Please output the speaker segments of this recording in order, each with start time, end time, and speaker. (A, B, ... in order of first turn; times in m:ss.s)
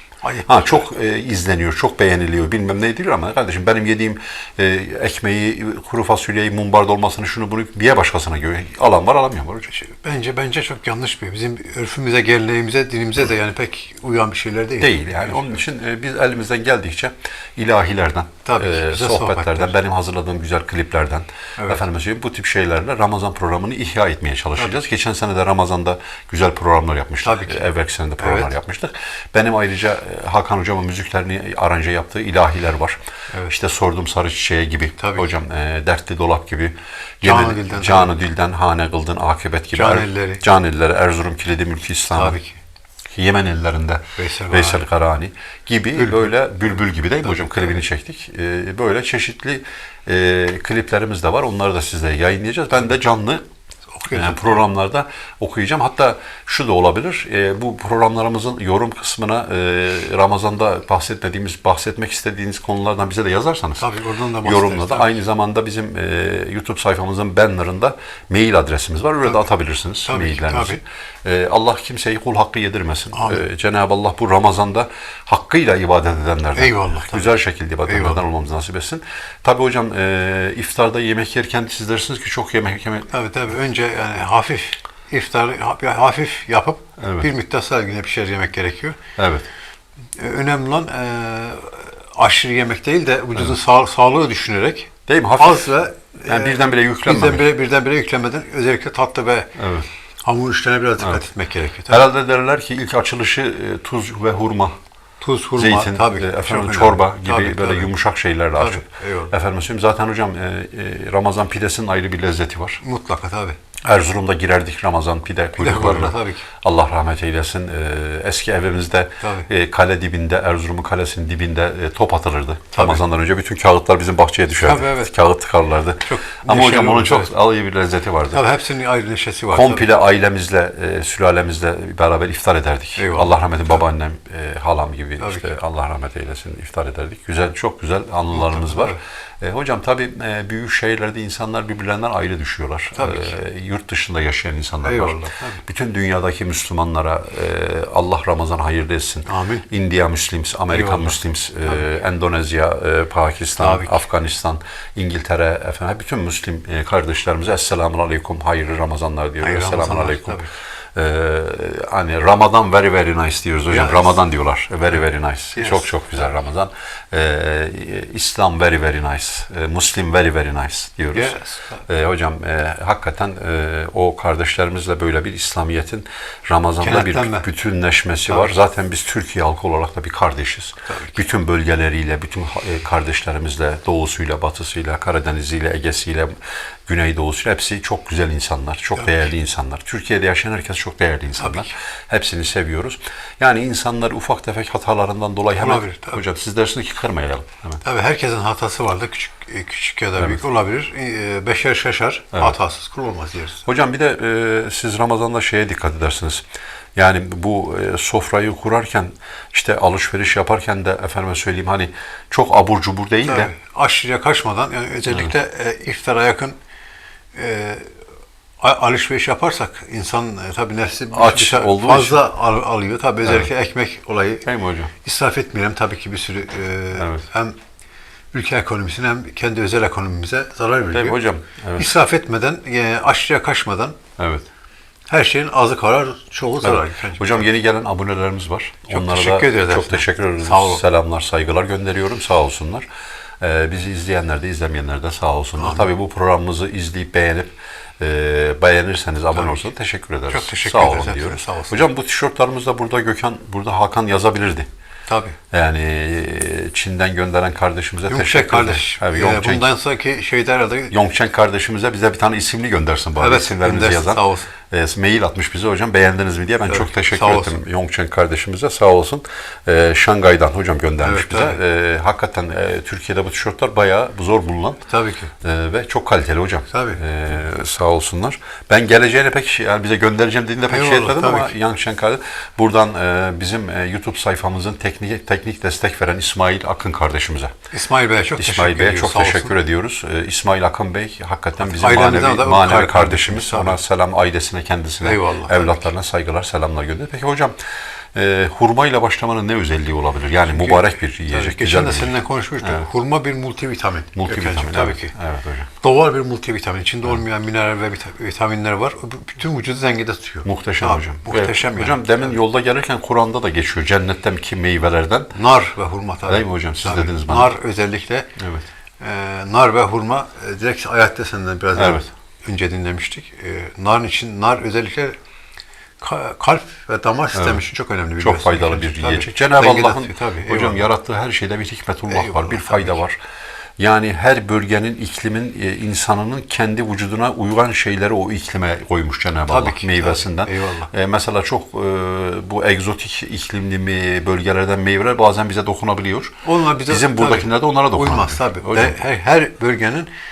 0:00.2-0:00.8 A
0:00.4-0:09.7 B
0:09.7-0:15.6 A
0:14.8-0:42.4 B
0:18.4-0:19.7 A
0:27.2-0:28.5 A
0:35.0-0:35.3 A
0:37.2-0:38.1 A
0:39.7-0:40.4 A
0:42.1-0:42.6 A
0:43.1-0:53.4 B
0:44.2-0:44.8 A
0:46.0-0:46.3 A
0:47.2-0:47.7 A
0:53.9-0:54.5 A
0:54.1-1:03.8 B
1:03.8-1:05.1 A
1:04.4-1:23.1 B
1:10.0-1:10.8 A
1:13.1-1:13.4 A
1:16.5-1:18.2 A
1:23.1-1:29.0 A
1:27.0-1:27.3 B
1:29.2-1:29.5 B
1:30.2-1:39.6 A
1:35.1-1:37.5 B
1:39.6-1:39.9 B
1:40.2-1:42.1 A
1:41.0-1:41.3 B
1:41.9-1:44.7 B
1:45.2-1:47.9 A
1:45.6-1:52.8 B
1:48.5-1:49.3 A
1:52.8-1:53.6 A
1:53.8-2:08.5 B
1:55.6-1:56.4 A
1:59.2-1:59.5 A
2:02.7-2:03.0 A
2:04.6-2:05.2 A
2:06.0-2:07.3 A
2:08.3-2:09.9 A
2:09.5-2:40.4 B
2:13.0-2:13.3 A
2:15.2-2:15.5 A
2:18.3-2:19.0 A
2:22.9-2:23.4 A
2:24.8-2:25.6 A
2:29.2-2:29.7 A
2:30.7-2:31.8 A
2:33.6-2:34.0 A
2:39.4-2:40.5 A
2:41.0-3:06.3 B
2:43.7-2:44.2 A
2:45.6-2:46.0 A
2:51.1-2:51.8 A
2:56.8-2:57.5 A
2:58.2-2:58.5 A
3:00.9-3:01.2 A
3:06.9-3:17.8 B
3:11.4-3:11.7 A
3:15.6-3:16.2 A
3:17.8-3:23.6 A
3:23.6-3:26.4 B
3:27.0-3:33.5 B
3:33.2-3:36.6 A
3:37.3-3:37.9 A
3:38.6-3:44.5 A
3:41.1-3:42.2 B
3:43.2-3:43.5 B
3:44.4-3:44.9 B
3:45.0-3:47.6 A
3:46.9-3:47.2 B
3:48.3-3:51.2 A
3:50.9-3:52.0 B
3:51.7-3:54.0 A
3:54.2-3:54.4 B
3:55.1-3:57.5 A
3:56.6-4:02.8 B
3:58.9-4:00.8 A
4:03.4-4:14.7 B
4:05.6-4:05.9 A
4:09.3-4:09.6 A
4:10.3-4:11.8 A
4:15.1-4:15.4 A
4:15.5-4:19.6 B
4:18.1-4:20.9 A
4:20.9-4:34.8 B
4:23.2-4:24.5 A
4:26.6-4:27.6 A
4:31.0-4:31.6 A
4:34.9-4:35.3 A
4:35.4-4:47.5 B
4:36.7-4:37.0 A
4:40.7-4:41.5 A
4:47.7-4:49.6 A
4:48.3-4:57.6 B
4:51.6-4:53.8 A
4:55.0-4:55.8 A
4:58.1-5:02.8 B
5:00.5-5:05.1 A
5:04.1-5:05.7 B
5:05.8-5:12.3 A
5:10.4-5:15.3 B
5:15.3-5:18.3 A
5:16.2-5:17.6 B
5:18.4-5:18.7 B
5:19.0-5:25.2 A
5:21.7-5:22.0 B
5:26.0-5:30.9 A
5:27.3-5:27.6 B
5:28.2-5:33.2 B
5:32.1-5:33.0 A
5:33.8-5:49.0 B
5:39.5-5:40.9 A
5:46.4-5:50.1 A